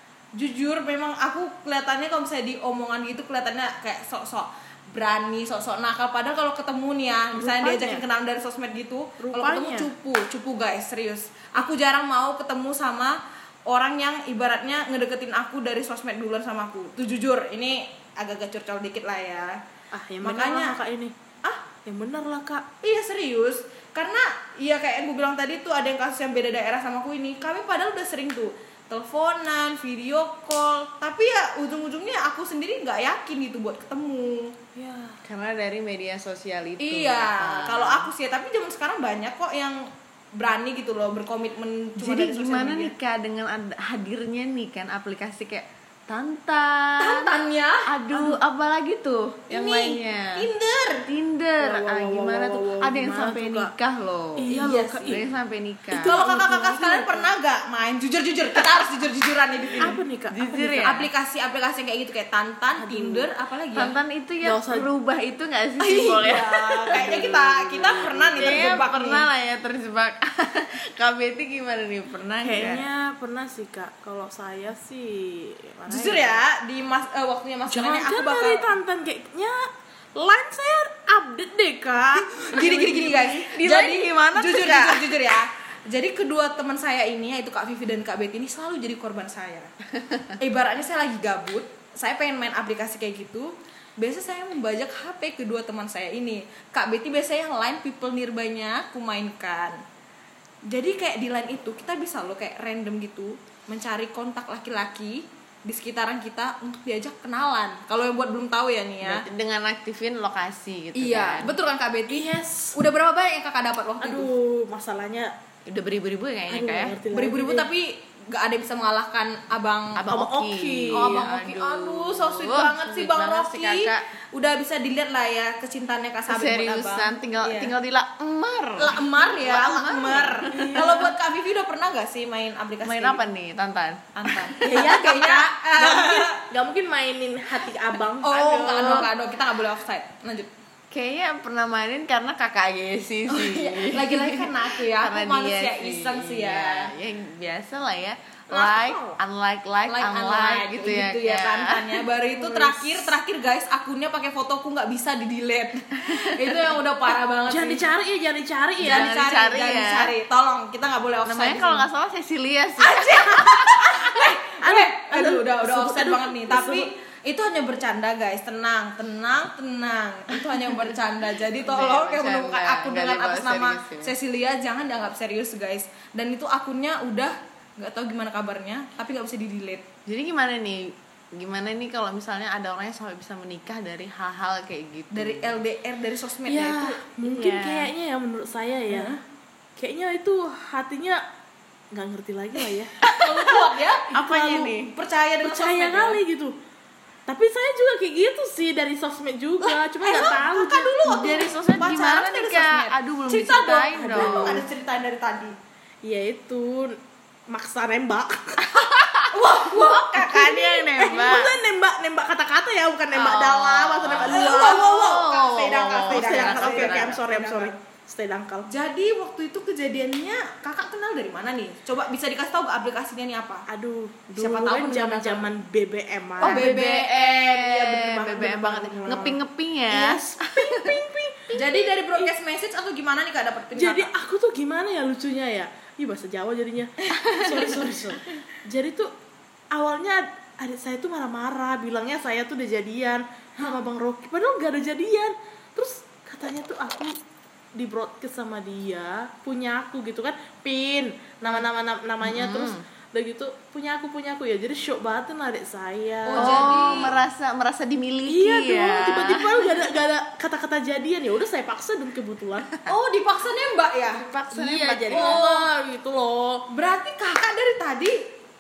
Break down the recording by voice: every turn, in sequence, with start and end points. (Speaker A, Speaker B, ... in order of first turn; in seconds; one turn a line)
Speaker A: 0.3-19.6
Speaker B: 7.3-8.0
Speaker B: 9.2-9.9
Speaker B: 19.9-21.1
Speaker A: 20.2-20.8
Speaker B: 21.8-22.7
Speaker A: 22.8-34.6
Speaker B: 34.7-35.2
Speaker C: 35.2-38.1
Speaker A: 36.8-42.9
Speaker C: 42.0-47.3
Speaker A: 47.0-47.9
Speaker C: 47.9-50.5
Speaker A: 49.5-51.1
Speaker C: 51.0-54.5
Speaker B: 51.6-53.7
Speaker B: 54.4-55.2
Speaker A: 54.5-55.2
Speaker C: 55.0-56.2
Speaker B: 55.9-57.3
Speaker A: 56.0-60.0
Speaker C: 59.7-61.1
Speaker B: 59.8-61.0
Speaker A: 60.8-63.9
Speaker B: 62.8-63.3
Speaker C: 63.7-67.2
Speaker B: 64.4-64.9
Speaker A: 65.8-69.2
Speaker B: 66.9-68.8
Speaker C: 68.4-72.8
Speaker B: 72.4-76.4
Speaker A: 75.9-78.7
Speaker B: 77.7-83.5
Speaker A: 82.4-89.7
Speaker C: 83.4-85.2
Speaker C: 90.0-90.3
Speaker A: 90.4-99.8
Speaker A: 100.7-109.2
Speaker C: 109.0-111.5
Speaker A: 110.9-114.3
Speaker B: 112.1-112.8
Speaker B: 114.0-115.3
Speaker C: 115.7-117.0
Speaker B: 116.5-117.7
Speaker A: 117.1-120.0
Speaker C: 120.0-124.0
Speaker B: 120.1-121.3
Speaker A: 120.9-127.7
Speaker C: 126.3-131.1
Speaker A: 128.8-133.2
Speaker B: 130.5-131.1
Speaker C: 132.8-134.9
Speaker A: 134.1-136.4
Speaker B: 134.6-139.1
Speaker A: 138.2-140.5
Speaker C: 140.9-153.1
Speaker A: 143.3-146.9
Speaker A: 148.5-149.1
Speaker A: 149.9-157.9
Speaker C: 156.0-156.8
Speaker B: 157.5-159.1
Speaker C: 158.8-160.1
Speaker A: 158.8-161.8
Speaker C: 161.2-164.2
Speaker A: 162.8-179.8
Speaker B: 164.6-166.9
Speaker C: 171.6-174.1
Speaker C: 180.1-185.6
Speaker A: 185.1-187.0
Speaker B: 186.5-189.2
Speaker C: 187.2-187.9
Speaker A: 188.9-189.2
Speaker B: 189.8-191.2
Speaker B: 191.9-193.5
Speaker A: 193.0-196.2
Speaker C: 194.1-194.9
Speaker B: 194.2-194.7
Speaker B: 195.4-196.5
Speaker B: 197.3-200.9
Speaker A: 199.6-205.5
Speaker C: 201.0-204.6
Speaker B: 203.9-204.7
Speaker B: 206.0-208.8
Speaker C: 208.7-211.5
Speaker A: 209.3-211.0
Speaker B: 210.9-215.1
Speaker C: 213.1-217.2
Speaker A: 214.2-217.8
Speaker B: 215.6-218.7
Speaker A: 218.7-223.7
Speaker B: 223.7-226.7
Speaker A: 224.4-225.5
Speaker A: 226.4-228.2
Speaker C: 226.4-231.0
Speaker B: 227.7-229.4
Speaker B: 229.9-232.3
Speaker A: 231.5-234.1
Speaker B: 233.8-239.1
Speaker A: 237.0-237.5
Speaker C: 237.2-237.6
Speaker B: 239.7-247.2
Speaker B: 247.8-257.0
Speaker C: 252.2-252.8
Speaker A: 256.3-257.1
Speaker C: 256.4-259.6
Speaker B: 258.3-262.7
Speaker A: 262.9-264.2
Speaker C: 264.2-265.4
Speaker B: 264.5-266.6
Speaker A: 265.1-265.6
Speaker A: 266.7-268.2